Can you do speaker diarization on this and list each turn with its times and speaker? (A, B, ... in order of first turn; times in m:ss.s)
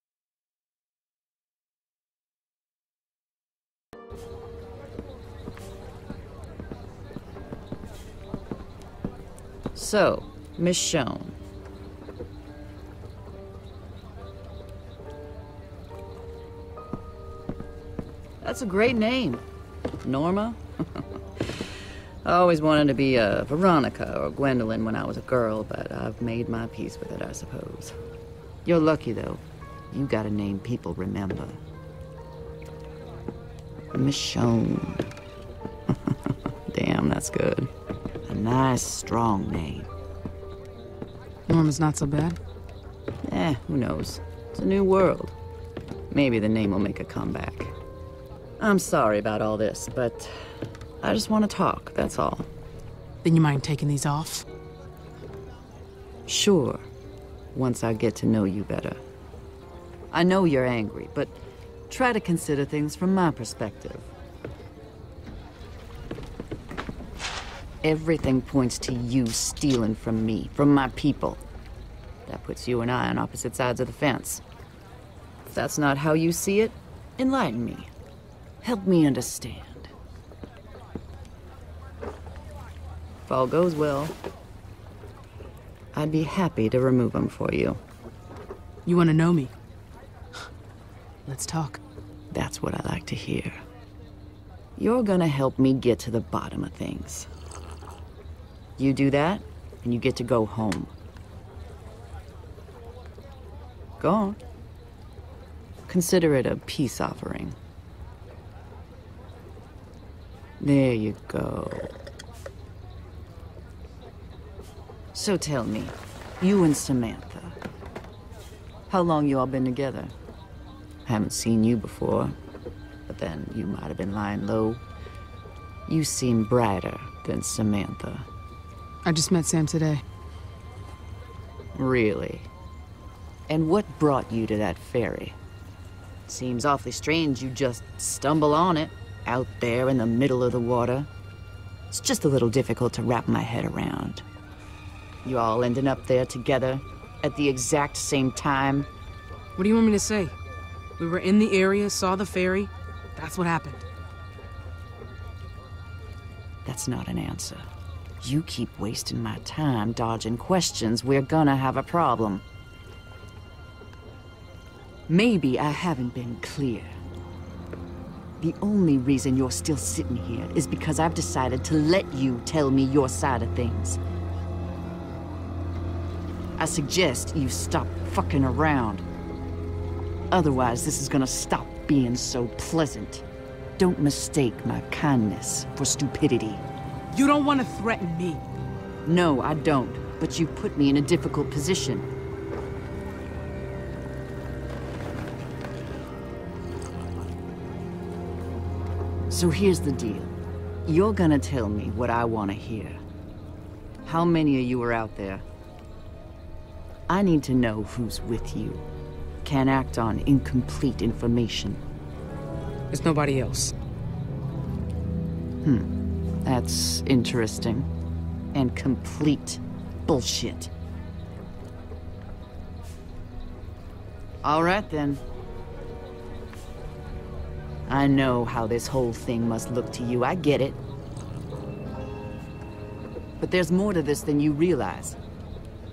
0:09.8-0:11.4 A
0:18.4-0:19.4 A
0:20.0-0:21.6 A
0:22.2-0:28.0 A
0:28.6-0:31.6 A
0:33.9-0:35.0 A
0:35.9-0:37.7 A
0:38.3-0:39.9 A
0:41.5-0:42.4 B
0:43.3-0:45.4 A
0:46.1-0:47.7 A
0:48.6-0:50.3 A
0:51.0-0:52.5 A
0:53.2-0:54.4 B
0:56.3-0:56.8 A
0:57.5-0:59.0 A
1:00.1-1:01.3 A
1:01.9-1:04.1 A
1:07.8-1:11.4 A
1:12.3-1:14.4 A
1:15.5-1:17.9 A
1:18.6-1:19.9 A
1:23.3-1:24.2 A
1:25.9-1:27.8 A
1:28.9-1:29.5 B
1:31.3-1:31.8 B
1:32.3-1:33.6 A
1:34.8-1:37.3 A
1:38.8-1:40.9 A
1:44.0-1:44.4 A
1:45.9-1:47.6 A
1:50.6-1:51.9 A
1:55.1-1:57.6 A
1:58.9-2:00.1 A
2:01.1-2:02.4 A
2:03.1-2:04.8 A
2:05.9-2:08.3 A
2:09.0-2:10.0 B
2:11.8-2:12.5 A
2:13.5-2:15.4 A
2:16.3-2:21.1 A
2:21.9-2:24.2 A
2:25.2-2:28.9 A
2:29.6-2:30.4 B
2:31.0-2:33.9 B
2:36.6-2:37.7 A
2:38.2-2:42.4 A
2:45.1-2:46.9 A
2:48.4-2:54.0 A
2:56.6-2:59.0 A
3:00.3-3:03.2 A
3:03.8-3:06.6 A
3:07.1-3:08.4 B
3:09.1-3:12.1 A
3:19.3-3:20.3 A
3:20.9-3:23.0 A
3:24.0-3:25.4 A
3:27.1-3:28.8 A
3:29.4-3:31.8 A
3:32.9-3:33.7 B
3:35.6-3:35.9 A
3:36.4-3:37.9 A
3:38.5-3:40.7 A
3:44.4-3:45.2 A
3:47.9-3:50.8 A
3:53.4-3:55.2 A